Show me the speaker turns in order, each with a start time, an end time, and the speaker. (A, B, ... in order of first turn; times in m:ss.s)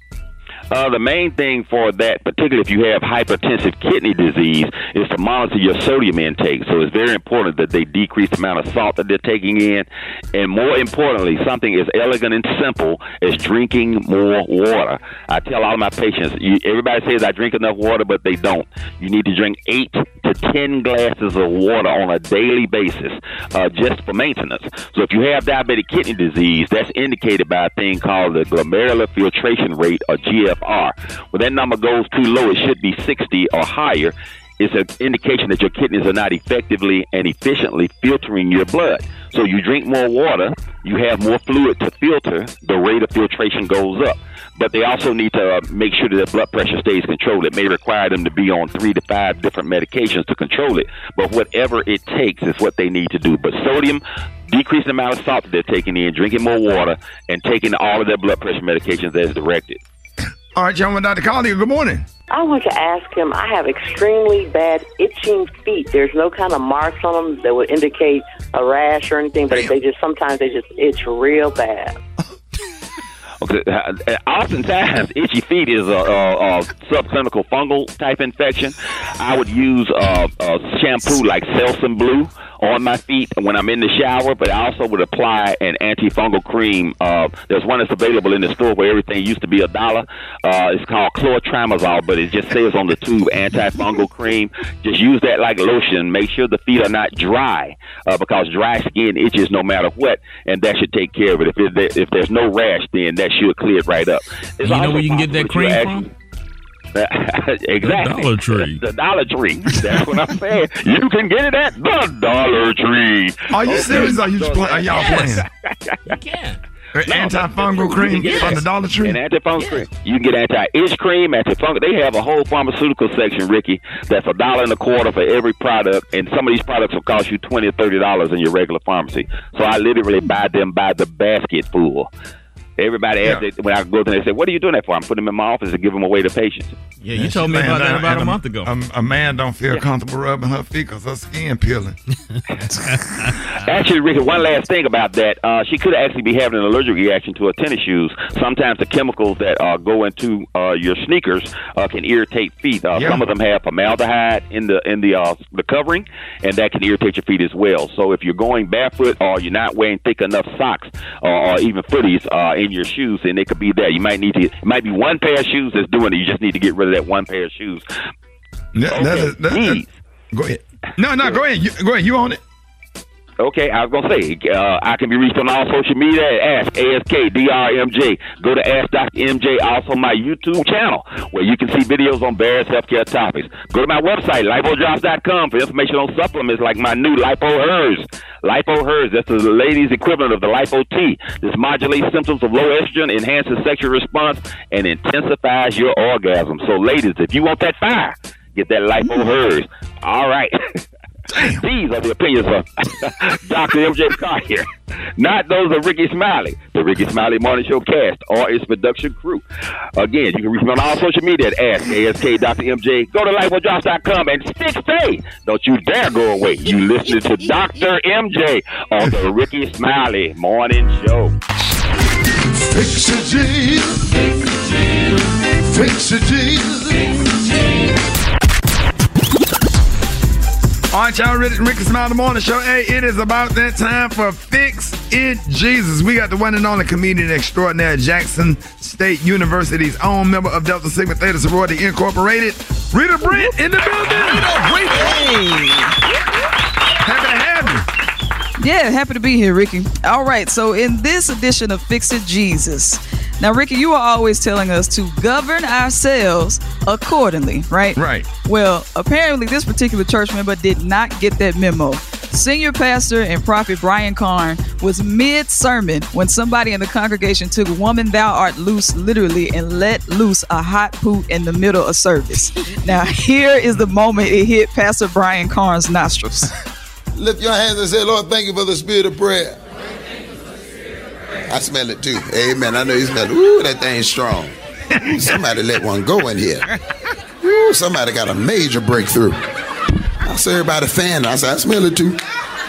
0:00.7-0:59.8 A
1:00.5-1:02.0 B
1:02.3-1:11.9 C
1:13.4-1:46.1 A
1:44.6-1:46.0 D
1:46.9-1:56.0 A
1:47.8-1:48.8 D
1:53.5-1:55.4 B
1:56.1-1:56.6 D
1:56.9-1:59.2 B
1:57.1-2:12.1 A
2:12.8-2:16.7 A
2:17.0-2:18.7 D
2:17.1-2:22.0 B
2:23.6-2:47.8 A
2:32.9-2:33.2 B
2:48.7-2:52.4 B
2:48.9-2:49.9 A
2:53.4-3:20.8 A
3:21.3-3:21.6 B
3:21.6-3:29.4 A
3:30.0-3:41.4 A
3:42.6-3:44.3 B
3:45.7-3:47.2 B
3:50.9-4:05.2 B
4:03.2-4:03.5 E
4:05.0-4:06.0 E
4:07.0-4:07.8 B
4:08.6-4:36.5 E
4:18.0-4:18.3 B
4:37.1-4:39.6 F
4:41.5-4:46.6 F
4:47.4-4:49.4 F
4:50.2-4:52.2 F